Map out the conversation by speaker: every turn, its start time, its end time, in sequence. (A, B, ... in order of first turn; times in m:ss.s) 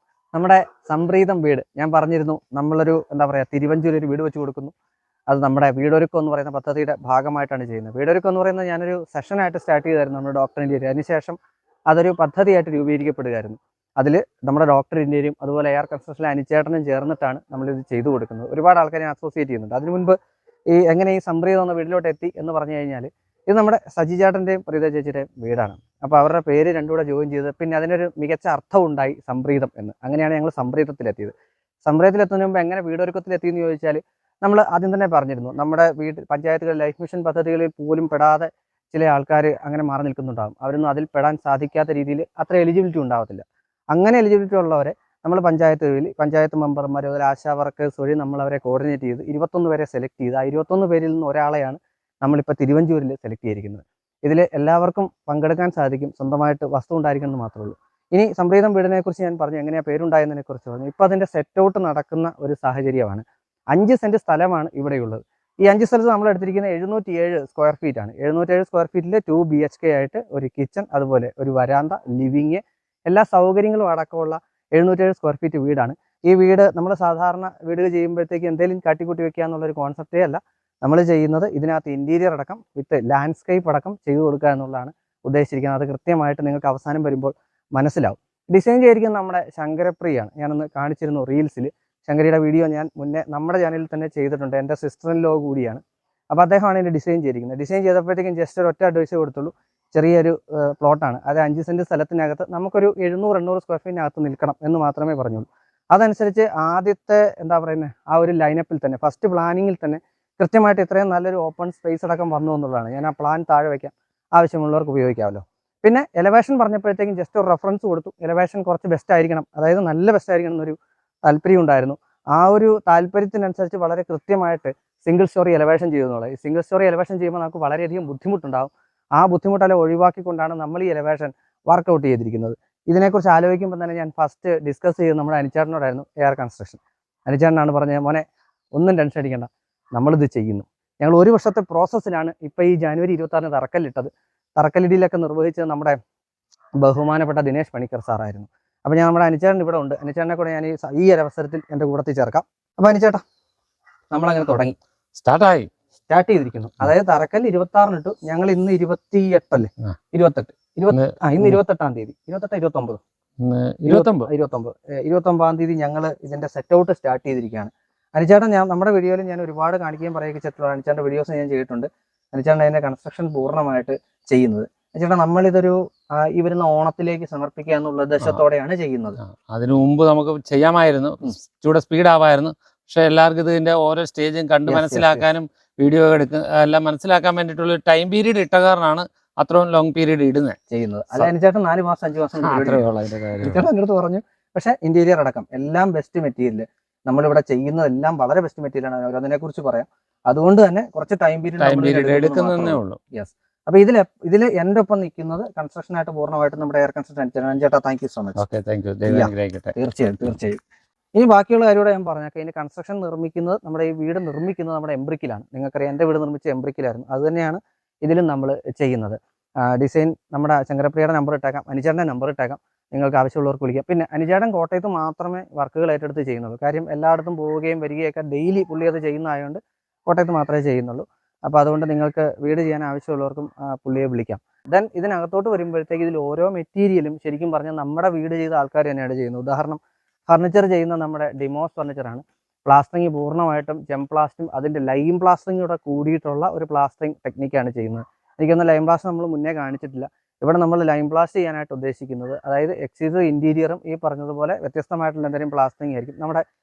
0:00.3-0:04.7 A
0:05.3-0:11.4 A
0:11.9-0:20.2 A
0:20.7-0:31.3 A
0:31.8-2:18.2 A
2:18.8-2:26.0 A
2:26.8-2:33.2 A
2:34.1-2:34.8 A
2:35.2-2:35.7 B
2:36.1-2:43.0 A
2:40.9-2:41.6 B
2:43.4-2:44.3 B
2:43.9-2:59.2 A
2:59.2-3:10.6 B
3:04.7-3:05.3 A
3:10.7-3:12.9 A
3:12.4-3:13.7 B
3:13.4-3:28.4 A
3:21.6-3:23.0 B
3:28.4-3:29.8 B
3:29.1-3:30.6 A
3:31.2-4:16.4 A